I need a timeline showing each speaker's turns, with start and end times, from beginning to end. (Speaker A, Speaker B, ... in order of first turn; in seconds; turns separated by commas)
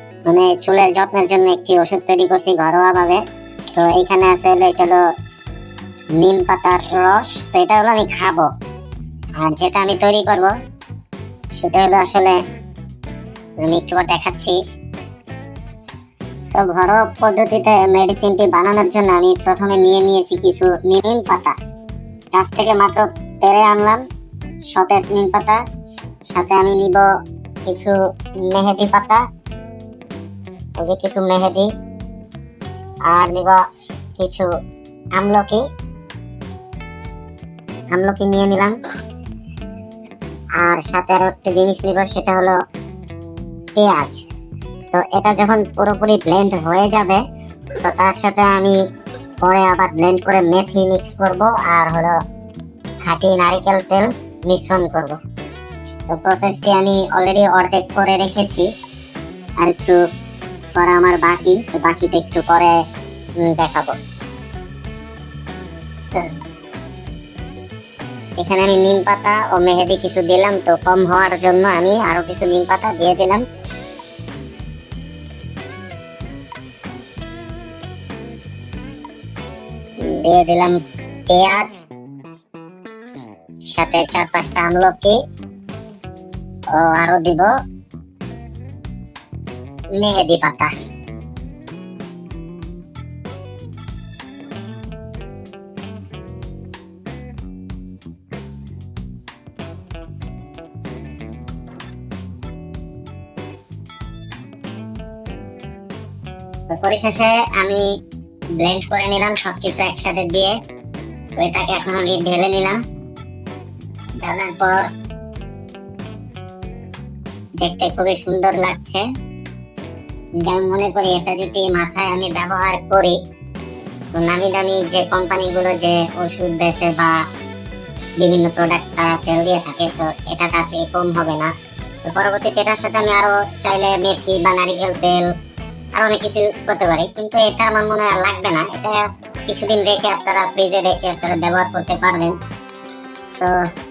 Speaker A: 0.2-5.1, Speaker A: 6.1-8.5, Speaker A: 9.3-10.6, Speaker A: 11.5-12.4, Speaker A: 13.6-14.6, Speaker A: 16.5-21.6, Speaker A: 22.3-24.0, Speaker A: 24.7-25.6, Speaker A: 26.3-27.1, Speaker A: 27.6-29.2, Speaker A: 30.8-31.7, Speaker A: 33.0-34.5, Speaker A: 35.1-35.7, Speaker A: 37.9-38.8, Speaker A: 40.6-42.6, Speaker A: 43.7-44.3, Speaker A: 44.9-47.2, Speaker A: 47.7-48.8, Speaker A: 49.4-52.2, Speaker A: 53.0-55.2, Speaker A: 56.1-58.7, Speaker A: 59.6-60.0, Speaker A: 60.7-62.8, Speaker A: 63.4-64.0, Speaker A: 68.4-73.4, Speaker A: 80.0-81.8, Speaker A: 83.6-85.2, Speaker A: 86.7-87.5, Speaker A: 90.0-90.9, Speaker A: 106.7-107.9, Speaker A: 108.6-110.6, Speaker A: 111.3-112.8, Speaker A: 114.2-114.8, Speaker A: 117.6-119.1, Speaker A: 120.4-123.2, Speaker A: 124.1-127.2, Speaker A: 128.2-131.5, Speaker A: 132.0-135.3, Speaker A: 135.9-142.4